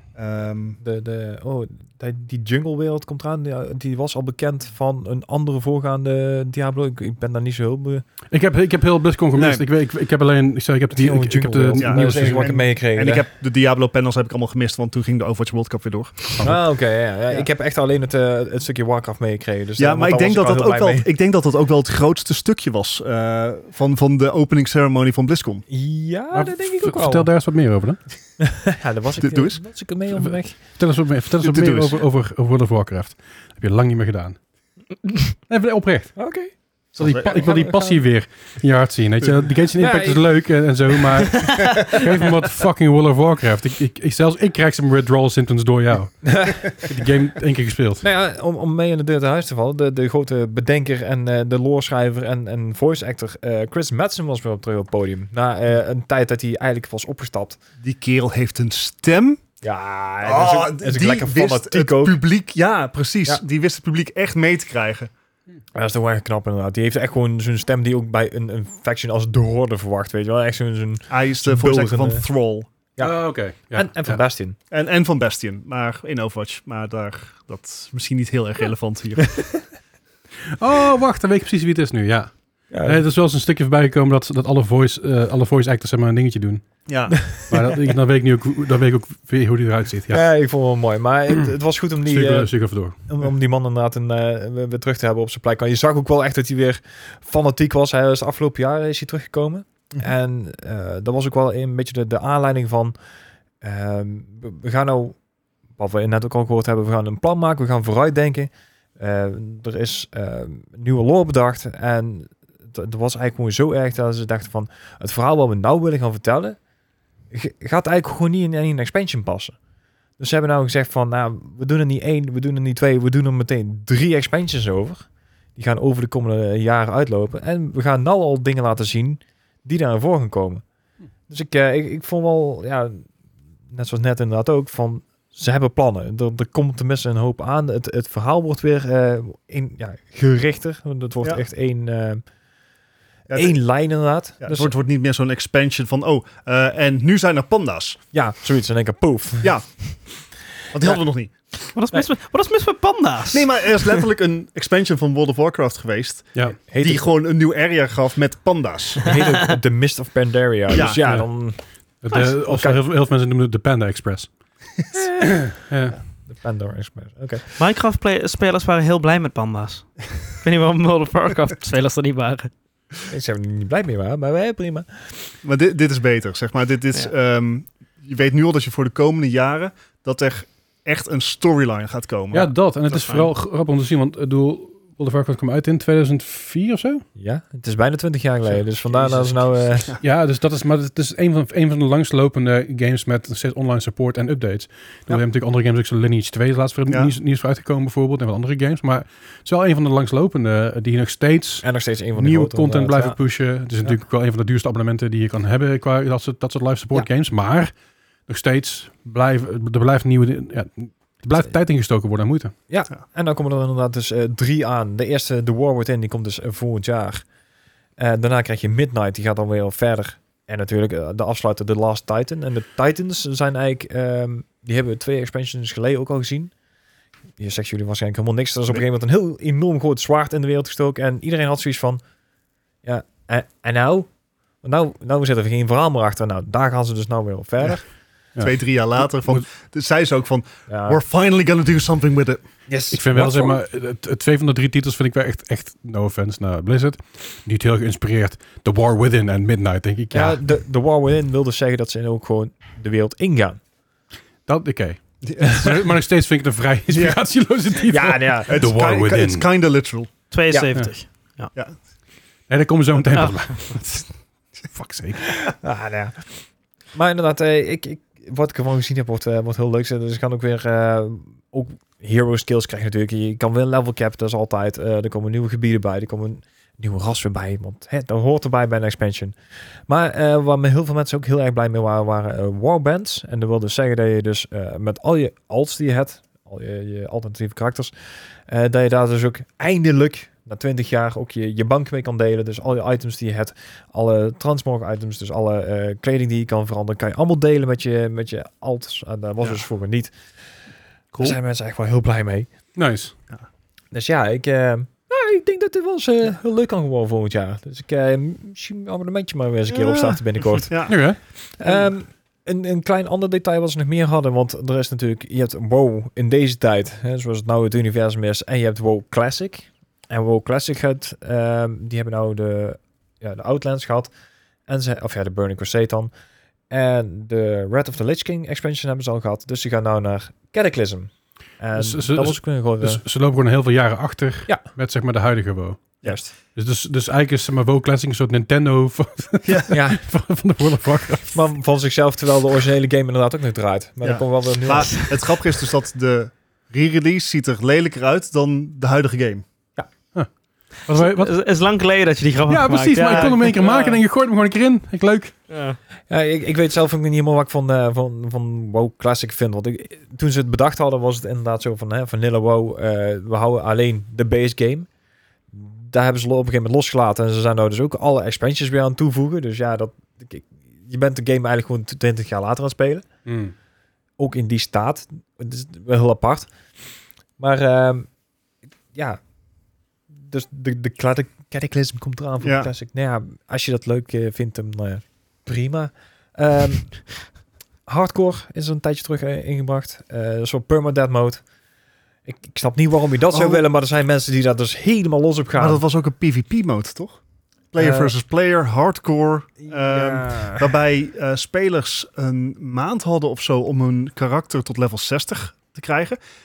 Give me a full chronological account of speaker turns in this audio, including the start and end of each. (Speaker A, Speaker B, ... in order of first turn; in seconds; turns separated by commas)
Speaker A: 0.1-0.8, Speaker B: 0.8-8.0, Speaker C: 8.3-12.5, Speaker A: 9.3-9.6, Speaker B: 10.9-13.3, Speaker A: 11.8-16.4, Speaker B: 16.4-21.1, Speaker A: 19.8-25.6, Speaker B: 25.7-27.3, Speaker C: 26.3-28.0, Speaker B: 28.4-30.6, Speaker A: 29.2-29.6, Speaker C: 30.1-34.4, Speaker A: 31.4-32.0, Speaker C: 35.5-36.2, Speaker B: 36.1-38.0, Speaker A: 37.0-37.5, Speaker C: 37.0-48.0, Speaker B: 39.8-40.7, Speaker B: 41.4-42.0, Speaker B: 46.2-46.7, Speaker B: 48.0-57.6, Speaker A: 57.8-59.4, Speaker B: 59.6-62.2, Speaker A: 60.2-65.1, Speaker B: 65.7-72.2, Speaker A: 71.1-72.7, Speaker B: 72.9-74.5, Speaker C: 73.0-74.2, Speaker A: 74.7-79.6, Speaker C: 80.6-86.7, Speaker B: 82.7-83.0, Speaker A: 86.9-87.2, Speaker C: 87.2-90.2, Speaker B: 90.1-102.9, Speaker C: 92.0-93.0, Speaker B: 103.6-105.2, Speaker B: 105.8-116.6, Speaker B: 117.3-119.5, Speaker B: 120.2-130.6, Speaker B: 131.3-133.1, Speaker B: 133.7-142.2, Speaker A: 143.3-143.6, Speaker B: 143.3-144.7, Speaker A: 144.4-148.0, Speaker B: 148.1-149.7, Speaker A: 149.4-151.3, Speaker D: 151.7-153.7, Speaker A: 153.3-159.1, Speaker B: 156.6-157.1, Speaker B: 159.0-162.8, Speaker A: 160.7-161.2, Speaker C: 161.0-161.3, Speaker C: 162.0-164.3, Speaker B: 165.0-165.4, Speaker C: 165.2-166.0, Speaker B: 166.3-167.5, Speaker D: 167.6-172.5, Speaker B: 173.1-175.3, Speaker A: 175.4-182.5, Speaker C: 182.3-187.0, Speaker D: 182.9-183.3, Speaker B: 187.2-189.9, Speaker A: 188.9-190.0, Speaker C: 190.0-207.7, Speaker B: 201.6-203.2, Speaker C: 208.3-212.5, Speaker B: 212.7-217.2, Speaker B: 218.0-226.5, Speaker B: 227.4-232.0, Speaker B: 232.8-234.1, Speaker B: 234.6-237.9, Speaker C: 238.3-239.4, Speaker A: 238.4-242.4, Speaker B: 240.7-241.0, Speaker B: 242.7-243.6, Speaker C: 242.9-250.4, Speaker B: 250.1-253.6, Speaker C: 254.4-259.5, Speaker A: 255.2-255.6, Speaker B: 255.4-255.7, Speaker A: 256.9-257.2, Speaker B: 257.9-258.7, Speaker A: 258.5-260.1, Speaker D: 260.3-261.5, Speaker C: 262.5-265.4, Speaker D: 263.1-263.8, Speaker B: 265.6-279.3, Speaker B: 279.9-300.1, Speaker B: 301.2-302.5, Speaker C: 302.8-303.1, Speaker B: 303.9-324.1, Speaker A: 309.7-311.1, Speaker C: 310.9-311.2, Speaker A: 311.6-311.9, Speaker B: 324.7-326.1, Speaker B: 326.7-333.0, Speaker C: 331.7-336.0, Speaker B: 336.0-336.3, Speaker C: 336.5-341.3, Speaker A: 339.4-339.7, Speaker B: 339.7-340.0, Speaker B: 341.3-345.2, Speaker A: 344.0-349.4, Speaker C: 350.1-351.3, Speaker D: 350.9-354.0, Speaker C: 352.5-355.3, Speaker D: 355.5-355.8, Speaker B: 356.1-364.9, Speaker B: 365.5-373.1, Speaker C: 373.2-373.5, Speaker B: 374.2-376.5, Speaker B: 377.4-378.1, Speaker B: 378.9-379.2, Speaker B: 380.2-387.3, Speaker A: 382.4-382.7, Speaker B: 387.9-391.4, Speaker B: 392.2-395.8, Speaker A: 393.3-393.6, Speaker A: 395.6-397.2, Speaker A: 397.7-406.2, Speaker B: 397.8-398.1, Speaker B: 399.6-400.7